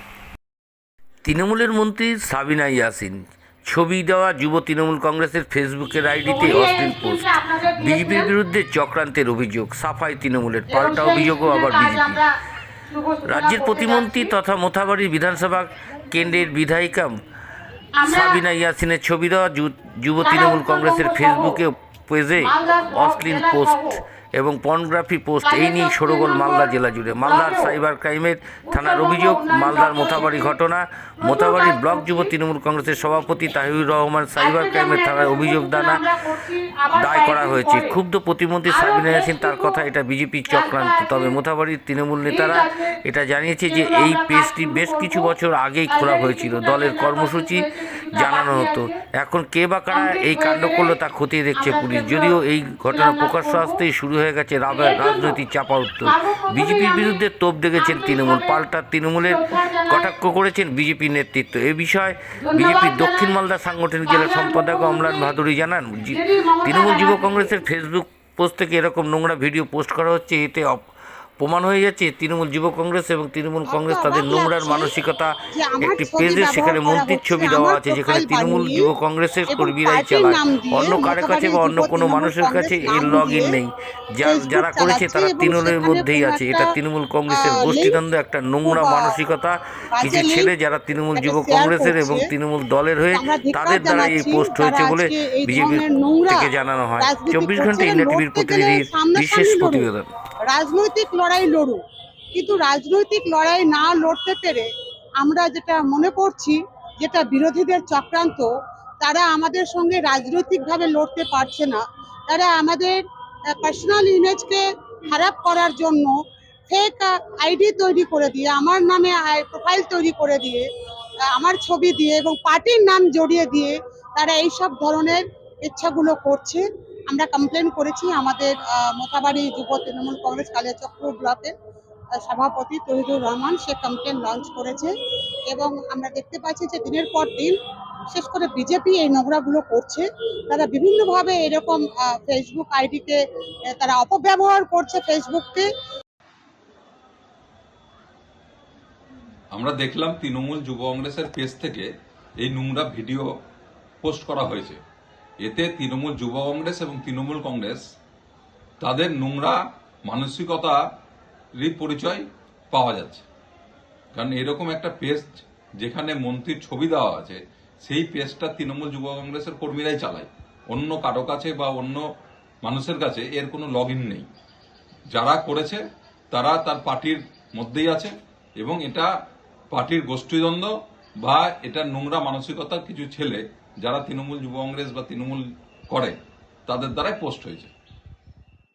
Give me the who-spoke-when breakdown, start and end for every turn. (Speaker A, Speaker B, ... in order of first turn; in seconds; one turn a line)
Speaker A: 1.2-12.2
Speaker B: 6.3-8.3
Speaker B: 10.7-12.3
Speaker B: 12.9-14.3
Speaker A: 13.3-17.1
Speaker B: 18.0-18.4
Speaker A: 18.0-36.0
Speaker B: 20.2-21.5
Speaker B: 22.4-23.9
Speaker B: 25.4-26.7
Speaker B: 27.3-27.7
Speaker B: 28.7-30.2
Speaker B: 31.2-32.3
Speaker B: 34.4-38.0
Speaker A: 36.9-70.9
Speaker B: 38.7-39.8
Speaker B: 40.5-41.4
Speaker B: 42.3-43.0
Speaker B: 43.7-45.3
Speaker B: 45.9-49.0
Speaker B: 49.9-51.0
Speaker B: 51.6-52.4
Speaker B: 52.9-53.8
Speaker B: 54.8-55.3
Speaker B: 56.0-57.2
Speaker B: 57.8-58.6
Speaker B: 59.3-60.0
Speaker B: 62.4-63.3
Speaker B: 64.1-65.3
Speaker B: 66.1-67.6
Speaker A: 71.4-100.1
Speaker B: 73.7-74.9
Speaker B: 75.5-78.9
Speaker B: 79.5-83.6
Speaker B: 84.2-86.7
Speaker B: 87.3-88.0
Speaker B: 88.7-89.2
Speaker B: 89.9-90.5
Speaker B: 91.2-92.3
Speaker B: 93.1-96.5
Speaker B: 97.0-99.9
Speaker B: 100.5-101.8
Speaker B: 102.3-104.7
Speaker B: 105.2-113.0
Speaker B: 113.6-116.2
Speaker B: 116.7-120.7
Speaker B: 121.3-131.5
Speaker B: 132.2-134.9
Speaker B: 135.5-137.6
Speaker B: 138.1-143.2
Speaker B: 143.7-145.7
Speaker C: 149.5-151.9
Speaker C: 152.4-153.3
Speaker C: 154.0-154.8
Speaker C: 155.4-157.8
Speaker C: 158.8-160.8
Speaker C: 161.6-163.2
Speaker C: 164.1-172.0
Speaker C: 172.6-174.3
Speaker C: 175.1-179.1
Speaker C: 179.7-180.7
Speaker C: 181.2-186.1
Speaker C: 186.7-187.7